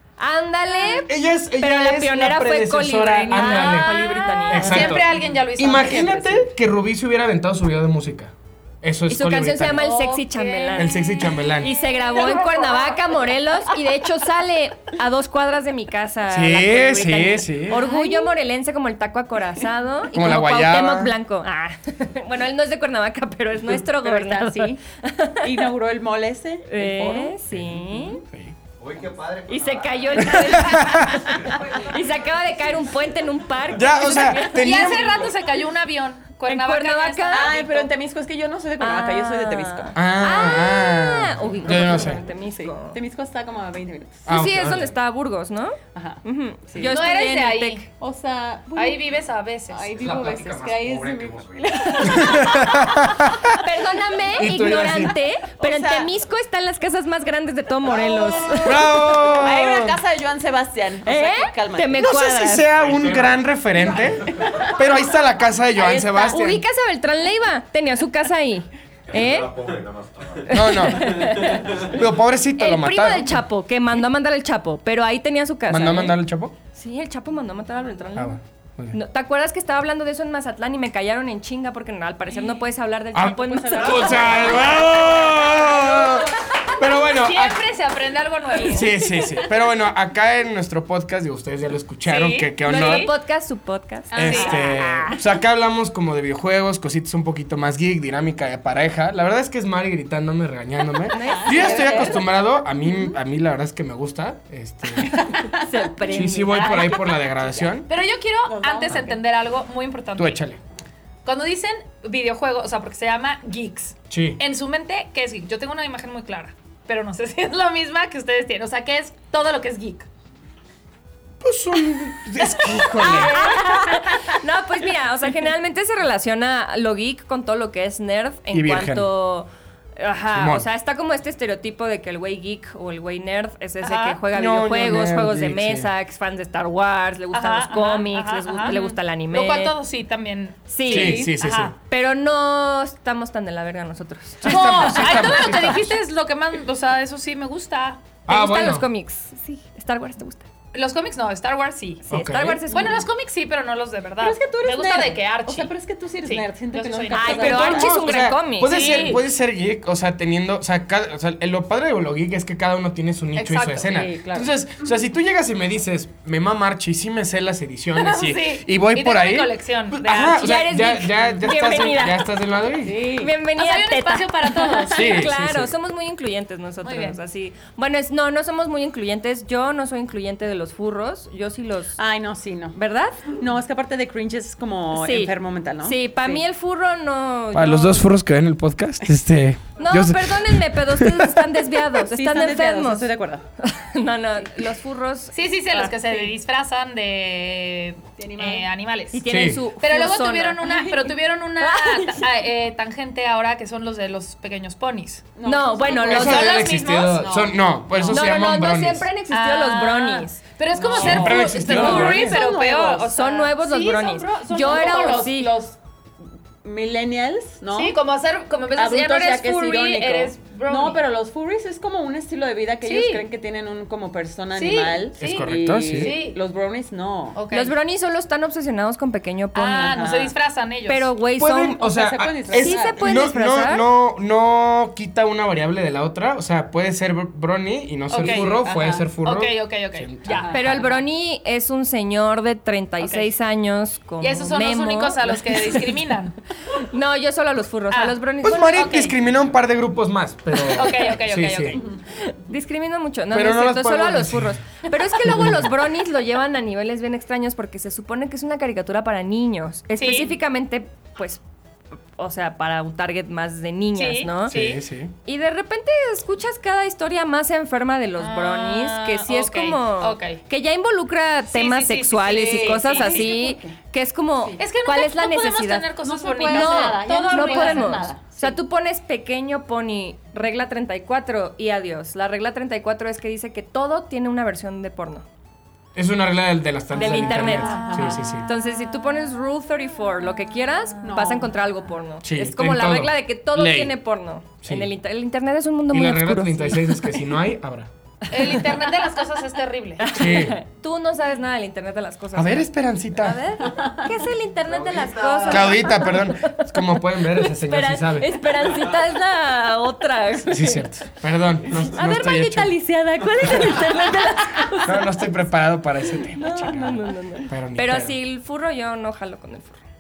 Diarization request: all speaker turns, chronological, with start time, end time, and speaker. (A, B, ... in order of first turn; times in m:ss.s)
0:00.2-0:05.0 A
0:01.1-0:09.9 B
0:03.3-0:06.5 C
0:04.8-0:05.4 D
0:09.1-0:11.0 A
0:09.7-0:13.1 C
0:10.8-0:11.7 B
0:11.6-0:25.7 A
0:16.3-0:17.8 B
0:17.7-0:18.3 D
0:20.1-0:21.1 B
0:23.7-0:24.8 D
0:25.4-0:27.4 D
0:26.7-0:28.2 A
0:28.3-0:28.6 B
0:28.8-0:32.6 E
0:29.5-0:35.2 A
0:30.2-0:31.3 B
0:33.7-0:35.3 B
0:34.5-0:37.9 C
0:36.5-0:37.6 A
0:37.3-0:40.0 D
0:38.8-0:43.0 A
0:40.0-0:42.2 B
0:41.6-0:44.3 D
0:44.3-0:44.9 B
0:44.3-0:47.8 A
0:45.9-0:47.0 D
0:46.8-0:47.9 C
0:48.0-0:49.2 D
0:48.8-0:50.0 C
0:49.7-0:53.2 D
0:49.9-0:52.4 E
0:52.0-0:52.4 A
0:52.2-0:53.3 B
0:53.5-0:58.8 A
0:54.4-0:55.1 B
0:55.6-0:56.1 D
0:57.8-1:02.0 D
0:58.6-1:00.0 B
1:01.1-1:02.7 A
1:02.0-1:06.6 B
1:02.8-1:04.7 E
1:05.8-1:06.4 D
1:05.8-1:09.5 A
1:09.1-1:12.0 E
1:10.5-1:13.4 B
1:10.5-1:11.7 A
1:12.6-1:16.2 A
1:15.7-1:16.6 B
1:16.7-1:18.4 A
1:18.2-1:19.0 B
1:18.9-1:24.8 A
1:23.1-1:27.6 B
1:23.3-1:26.2 D
1:27.1-1:28.9 C
1:28.6-1:29.5 D
1:28.6-1:33.1 B
1:32.0-1:33.1 C
1:32.6-1:35.2 A
1:34.1-1:34.8 C
1:34.1-1:45.3 B
1:41.1-1:42.2 A
1:41.1-1:43.2 D
1:45.0-1:45.8 D
1:45.4-1:47.3 A
1:46.1-1:47.9 B
1:47.9-1:50.4 C
1:48.4-1:49.2 D
1:50.2-1:50.6 B
1:51.2-2:00.1 C
1:54.1-1:54.4 B
2:01.4-2:03.5 B
2:03.0-2:19.8 A
2:08.5-2:09.1 B
2:10.3-2:10.7 B
2:13.8-2:14.2 C
2:14.3-2:15.9 B
2:17.3-2:21.8 C
2:20.7-2:21.3 A
2:20.9-2:21.7 B
2:20.9-2:21.2 D
2:21.9-2:25.3 A
2:24.4-2:25.9 B
2:24.4-2:28.0 C
2:28.3-2:28.9 B
2:28.3-2:30.4 A
2:30.7-2:32.1 C
2:32.1-2:33.0 A
2:32.1-2:32.6 B
2:32.7-2:35.7 C
2:32.7-2:33.1 D
2:34.2-2:37.9 D
2:36.2-2:37.8 C
2:37.1-2:39.0 A
2:37.3-2:53.0 B
2:38.6-2:39.2 C
2:43.4-2:43.9 C
2:43.8-2:44.5 D
2:48.0-2:50.5 C
2:50.2-2:52.3 A
2:51.5-2:51.9 C
2:52.8-2:53.4 D
2:53.2-3:02.0 A
2:53.6-2:55.1 C
2:54.5-2:55.0 D
2:54.9-2:55.7 B
2:56.8-2:57.2 C
3:02.0-3:06.4 D
3:02.8-3:03.3 A
3:04.9-3:08.1 A
3:07.5-3:11.4 B
3:09.8-3:16.3 A
3:12.1-3:13.4 D
3:15.3-3:19.3 C
3:18.2-3:18.7 D
3:19.1-3:22.4 A
3:19.3-3:19.6 B
3:19.8-3:25.3 C
3:25.4-3:28.2 D
3:25.4-3:26.6 A
3:26.0-3:29.1 B
3:26.0-3:27.4 C
3:28.1-3:30.4 A
3:29.3-3:35.6 C
3:30.7-3:33.1 D
3:30.9-3:32.4 B
3:31.6-3:32.3 A
3:33.1-3:35.5 A
3:34.6-3:35.8 D
3:36.6-3:38.0 D
3:37.7-3:41.0 C
3:38.8-3:47.4 D
3:42.8-3:43.2 C
3:44.6-3:46.4 C
3:45.2-3:46.2 B
3:47.4-3:47.8 C
3:47.5-3:50.0 A
3:49.5-3:51.1 C
3:49.8-3:50.3 D
3:50.9-3:51.9 A
3:51.4-4:00.4 B
3:51.8-3:53.0 D
3:52.5-3:53.9 A
3:58.1-3:58.6 C
3:58.1-3:59.1 D
3:59.2-4:00.9 C
4:00.2-4:01.0 D
4:00.5-4:06.0 A
4:03.0-4:03.3 C
4:04.2-4:06.4 C
4:06.8-4:09.1 A
4:07.9-4:08.2 C
4:08.4-4:11.8 B
4:08.7-4:09.1 C
4:10.6-4:11.9 C
4:12.2-4:21.4 A
4:13.3-4:14.6 B
4:15.2-4:15.7 B
4:20.0-4:20.3 C
4:22.2-4:24.6 A
4:24.0-4:24.8 C
4:24.5-4:25.1 B
4:25.2-4:36.0 A
4:28.2-4:30.4 C
4:31.5-4:33.3 C
4:32.3-4:33.8 D
4:34.6-4:38.1 C
4:36.0-4:38.4 D
4:36.5-4:45.2 A
4:46.0-4:48.5 B
4:46.9-4:57.2 A
4:47.4-4:48.2 D
4:47.7-4:48.1 C
4:51.0-4:51.5 D
4:52.2-4:53.9 B
4:54.6-4:54.9 B
4:55.9-4:57.9 B
4:58.3-5:00.1 C
4:58.3-4:58.9 A
5:00.0-5:10.9 A
5:00.1-5:00.6 B
5:02.3-5:03.4 B
5:03.6-5:04.1 D
5:04.7-5:05.9 E
5:05.5-5:08.3 B
5:10.5-5:12.8 B
5:11.8-5:15.2 A
5:13.4-5:13.7 B
5:14.8-5:18.2 B
5:16.3-5:19.8 A